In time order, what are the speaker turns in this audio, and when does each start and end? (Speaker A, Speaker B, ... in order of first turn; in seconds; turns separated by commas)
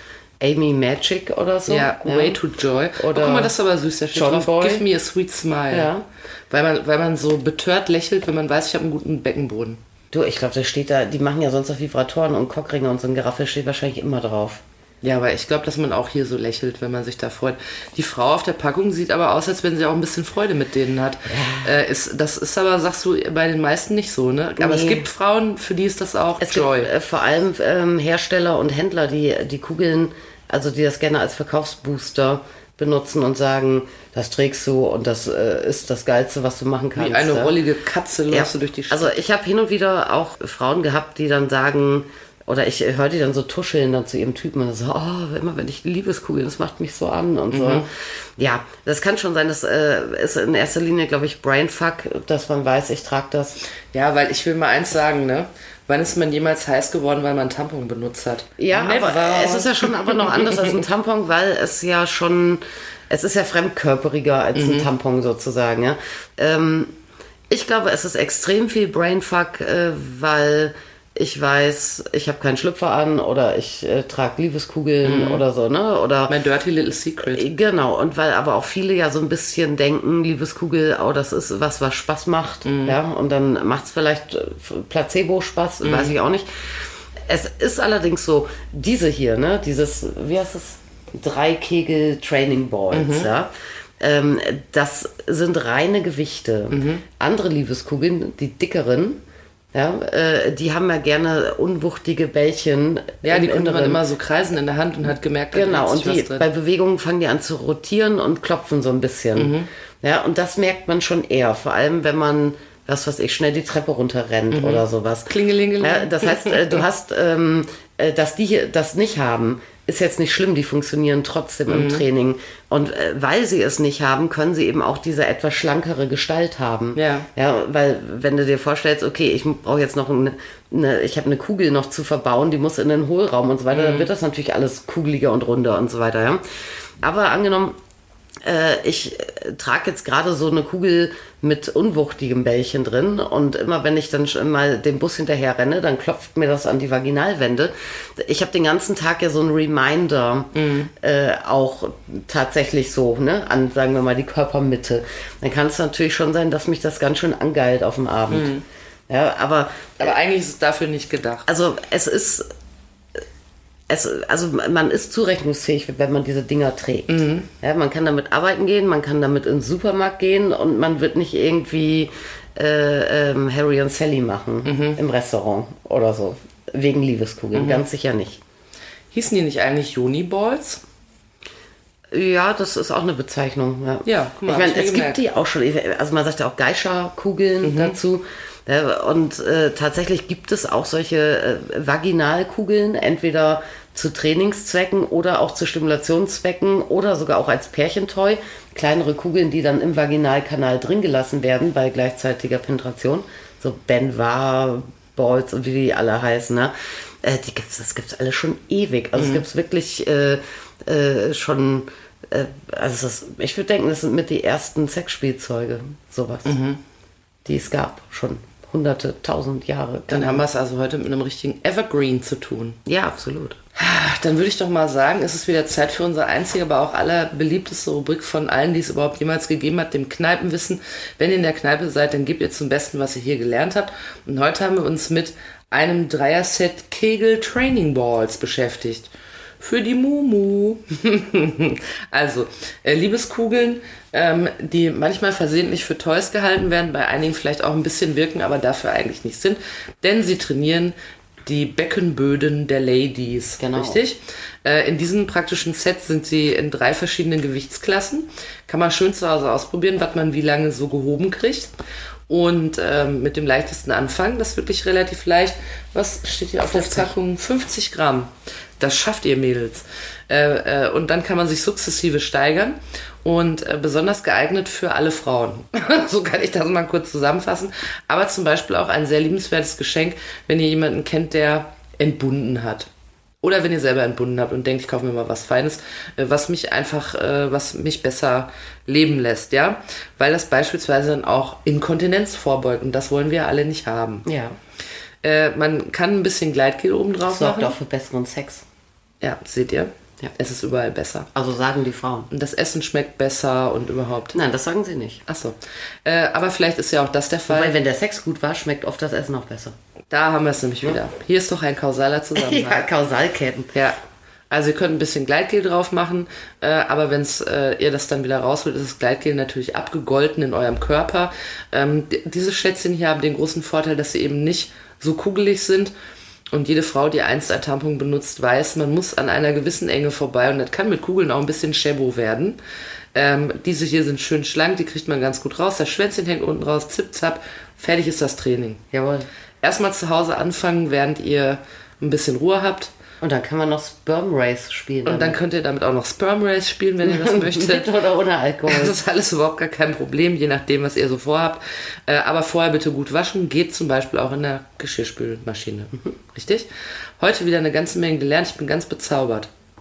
Speaker A: 0.4-2.4, Speaker B: 1.7-5.9, Speaker A: 3.0-3.5, Speaker A: 4.1-4.9, Speaker A: 5.7-6.1, Speaker B: 6.5-9.8, Speaker A: 10.1-14.6, Speaker B: 15.0-26.9, Speaker A: 21.3-21.7, Speaker A: 24.6-25.1, Speaker A: 26.4-37.6, Speaker B: 37.0-39.2, Speaker A: 38.3-53.6, Speaker B: 47.5-47.9, Speaker B: 53.9-60.8, Speaker A: 58.6-66.9, Speaker B: 64.5-64.9, Speaker A: 67.5-76.4, Speaker B: 75.0-75.4, Speaker B: 76.3-77.5, Speaker A: 77.3-93.5, Speaker B: 82.7-83.0, Speaker B: 85.8-86.1, Speaker B: 92.9-93.3, Speaker A: 94.0-99.2, Speaker B: 96.7-97.0, Speaker A: 99.7-104.0, Speaker B: 103.2-106.5, Speaker A: 105.5-136.4, Speaker B: 109.4-109.7, Speaker B: 114.5-116.7, Speaker B: 121.7-122.0, Speaker B: 127.0-127.3, Speaker B: 133.7-134.1, Speaker A: 137.0-137.8, Speaker A: 138.4-158.5, Speaker B: 150.5-150.9, Speaker B: 158.3-158.6, Speaker A: 159.1-160.2, Speaker B: 160.0-161.5, Speaker A: 161.5-162.5, Speaker A: 163.9-178.4, Speaker B: 167.1-167.5, Speaker B: 174.6-175.0, Speaker B: 177.5-177.8, Speaker B: 179.1-180.8, Speaker A: 182.1-216.6, Speaker B: 184.1-185.2, Speaker B: 187.6-188.0, Speaker B: 209.2-209.4, Speaker B: 216.4-216.8, Speaker A: 217.4-220.4, Speaker B: 220.1-222.8, Speaker A: 222.9-223.6, Speaker B: 223.8-261.7, Speaker A: 253.6-254.0, Speaker B: 262.3-282.9, Speaker A: 266.7-267.1, Speaker B: 283.4-294.3, Speaker A: 294.3-294.6, Speaker B: 295.2-297.8, Speaker A: 297.3-298.6, Speaker B: 299.2-301.3, Speaker A: 301.4-302.3, Speaker B: 302.3-304.4, Speaker A: 304.3-305.2, Speaker B: 305.3-307.8, Speaker A: 307.5-309.8, Speaker B: 310.1-312.8, Speaker A: 312.4-313.7, Speaker B: 313.7-314.0, Speaker B: 314.5-325.9, Speaker B: 326.5-332.6, Speaker B: 333.1-338.8, Speaker A: 338.9-339.3, Speaker B: 339.6-342.9, Speaker A: 343.2-345.4, Speaker B: 345.1-347.9, Speaker A: 347.0-349.0, Speaker B: 348.7-356.7, Speaker B: 357.2-359.5